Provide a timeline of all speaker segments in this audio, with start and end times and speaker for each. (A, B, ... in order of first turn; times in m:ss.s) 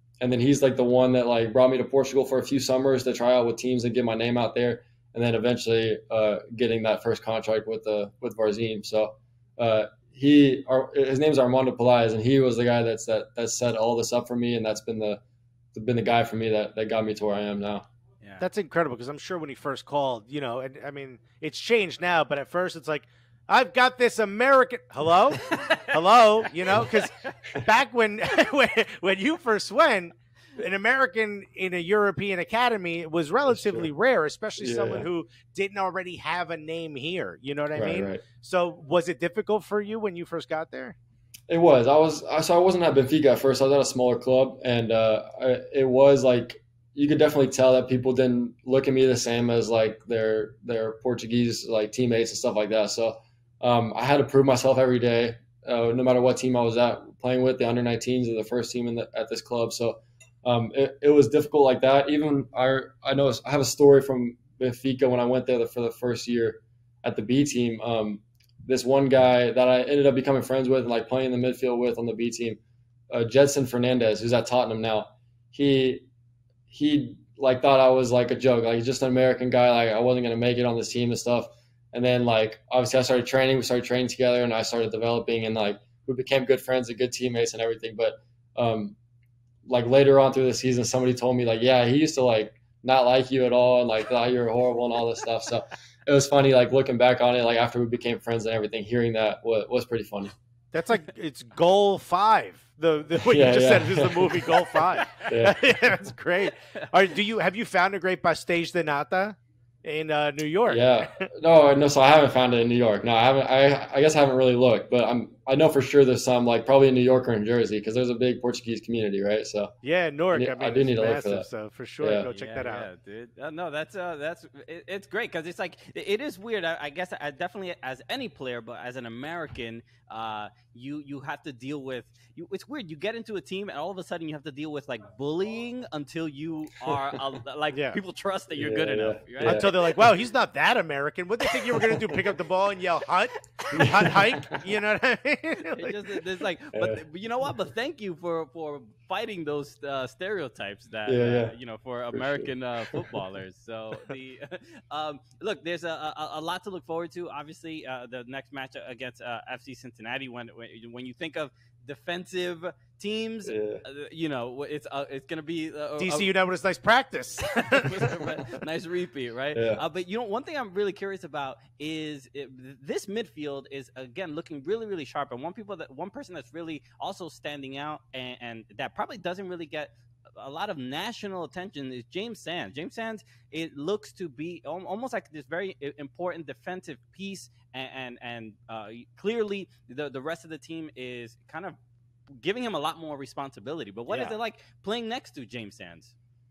0:00.2-0:15.2 A
0:15.7-0:17.8 A
0:18.4-0:41.0 B
0:25.5-0:25.9 C
0:26.8-0:27.3 C
0:33.5-0:33.9 A
0:34.6-0:35.1 A
0:37.7-0:38.2 A
0:41.5-1:12.6 A
1:13.1-1:16.1 A
1:16.7-1:29.0 A
1:29.7-1:40.3 A
1:40.7-1:51.3 B
1:43.3-1:45.7 A
1:50.7-1:59.7 A
1:59.8-2:02.9 B
2:00.3-2:01.5 A
2:02.0-2:02.3 A
2:02.3-2:19.9 C
2:17.7-2:18.0 B
2:18.5-2:19.7 A
2:19.4-2:26.2 B
2:23.7-2:24.6 A
2:25.6-2:46.3 C
2:26.7-2:27.0 A
2:31.1-2:31.6 A
2:32.1-2:33.1 A
2:43.5-2:43.8 A
2:46.0-2:48.4 B
2:47.5-3:11.8 C
2:49.5-2:49.8 A
3:12.4-3:16.1 C
3:14.1-3:14.3 B